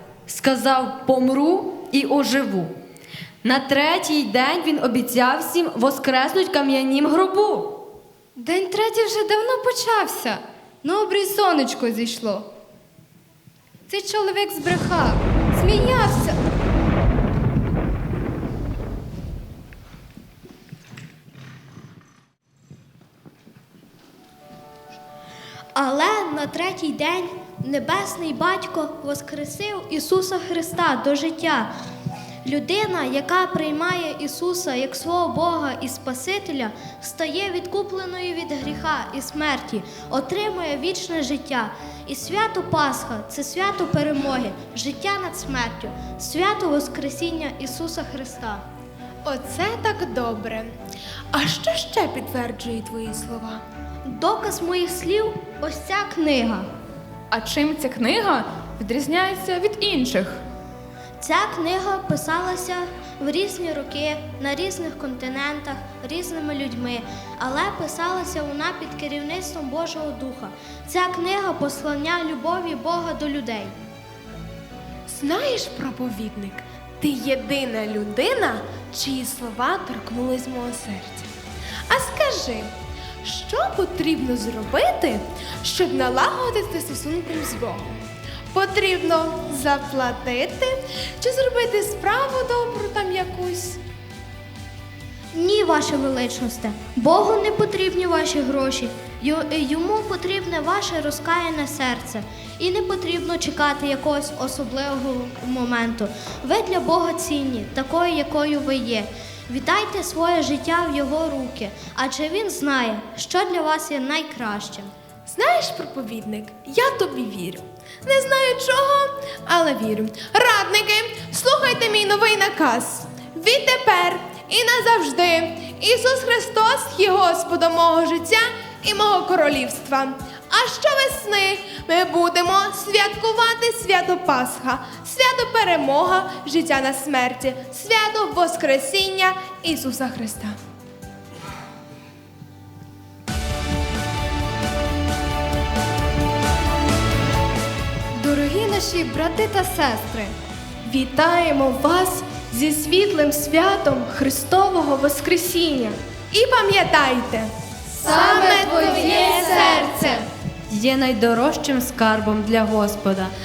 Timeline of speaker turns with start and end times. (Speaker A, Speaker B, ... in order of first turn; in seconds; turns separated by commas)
Speaker A: 0.3-2.4, Speaker A: 3.5-7.6, Speaker B: 8.3-12.5, Speaker B: 13.9-16.4, Speaker C: 25.7-31.7, Speaker C: 32.4-48.6, Speaker D: 49.2-50.7, Speaker D: 51.3-53.6, Speaker C: 54.0-56.7, Speaker E: 57.3-60.4, Speaker C: 61.2-73.7, Speaker D: 75.1-81.3, Speaker D: 81.9-87.9, Speaker D: 88.5-93.8, Speaker C: 95.3-114.9, Speaker D: 115.3-140.6, Speaker B: 148.1-150.3, Speaker F: 150.8-156.0, Speaker D: 156.3-157.5, Speaker B: 157.9-160.3, Speaker D: 158.1-160.0